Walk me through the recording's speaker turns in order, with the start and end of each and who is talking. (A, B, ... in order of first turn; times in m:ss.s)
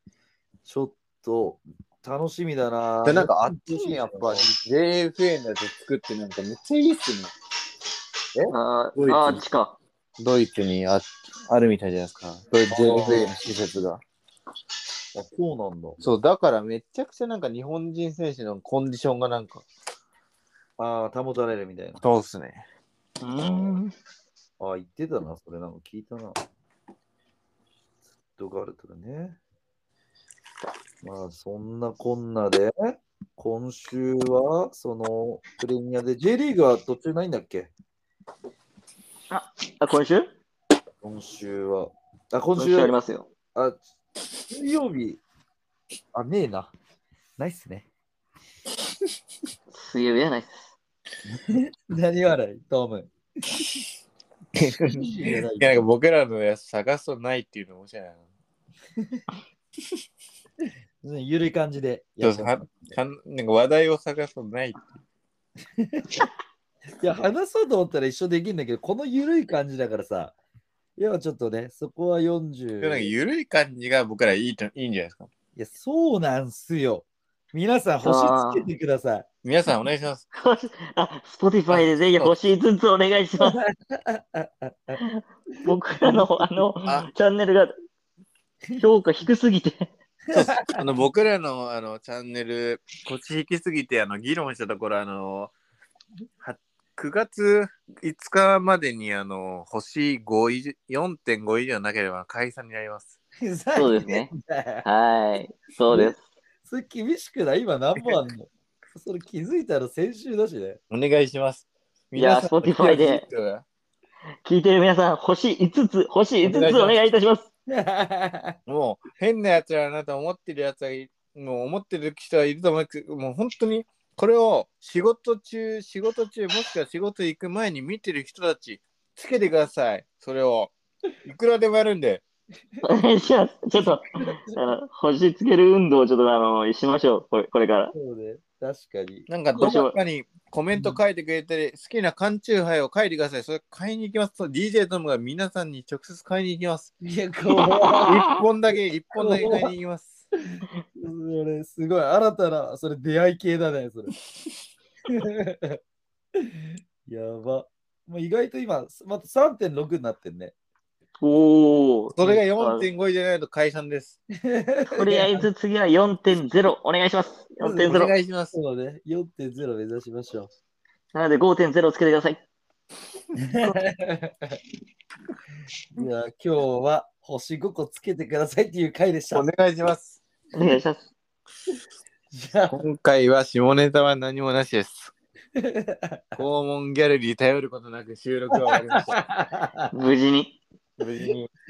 0:00.7-0:04.5 A
0:03.0-0:07.3 B
0:08.3-0:09.4 B
0:08.5-0:09.8 C
0:10.2-0:14.0 B
0:12.7-0:13.4 A
0:15.1-0:16.0 A
0:16.0-0:19.6 B
0:20.8-0:22.0 A
0:22.0-0:22.6 B
0:23.2-0:23.9 C
0:23.4-0:23.8 A
0:24.6-0:26.4 A
0:28.4-0:29.4 A
0:31.0-0:37.7 A
0:39.3-0:40.3 C
0:41.0-0:43.0 A
0:42.6-0:43.3 C
0:44.5-0:45.2 A
0:46.1-0:46.7 A
0:47.4-0:47.9 A
0:49.7-0:50.7 C
0:51.2-0:53.7 A
0:54.6-0:58.2 B
0:55.0-0:55.9 A
0:59.0-0:59.2 A
1:01.0-1:03.0 A
1:02.2-1:04.8 B
1:05.8-1:06.3 A
1:07.0-1:10.4 A
1:11.0-1:13.1 A
1:12.8-1:15.3 B
1:15.6-1:19.3 A
1:18.0-1:18.7 C
1:19.4-1:20.2 B
1:20.3-1:23.6 C
1:21.7-1:22.3 B
1:23.4-1:25.0 A
1:25.0-1:27.7 C
1:26.0-1:26.6 A
1:28.8-1:29.9 C
1:30.3-1:30.8 A
1:30.3-1:35.5 B
1:36.4-1:43.2 B
1:43.4-1:44.9 A
1:43.7-1:44.3 C
1:44.8-1:46.2 C
1:45.9-1:50.8 A
1:50.9-1:53.6 B
1:52.1-1:53.2 C
1:54.4-1:57.5 C
1:56.4-1:57.0 B
1:57.7-1:58.6 A
1:58.7-2:10.7 B
2:11.2-2:12.2 B
2:12.8-2:17.9 C
2:14.3-2:14.6 A
2:17.9-2:19.3 A
2:19.3-2:26.9 B
2:19.5-2:20.0 C
2:20.7-2:21.0 A
2:27.0-2:28.2 A
2:27.5-2:28.4 C
2:28.1-2:30.2 B
2:29.1-2:29.7 A
2:30.4-2:34.1 A
2:35.1-2:35.8 A
2:36.4-2:40.5 A
2:41.2-2:42.9 C
2:42.1-2:44.2 B
2:44.4-2:45.5 A
2:44.9-2:48.1 C
2:47.6-2:50.5 A
2:47.8-2:48.5 B
2:51.1-2:52.4 C
2:53.4-2:54.6 A
2:56.0-2:59.5 A
2:59.3-3:00.2 B
3:00.5-3:01.1 C
3:02.3-3:02.8 A
3:02.7-3:05.1 B
3:05.6-3:06.4 A
3:06.4-3:09.2 B
3:08.5-3:10.1 A
3:09.9-3:10.6 C
3:11.0-3:11.5 B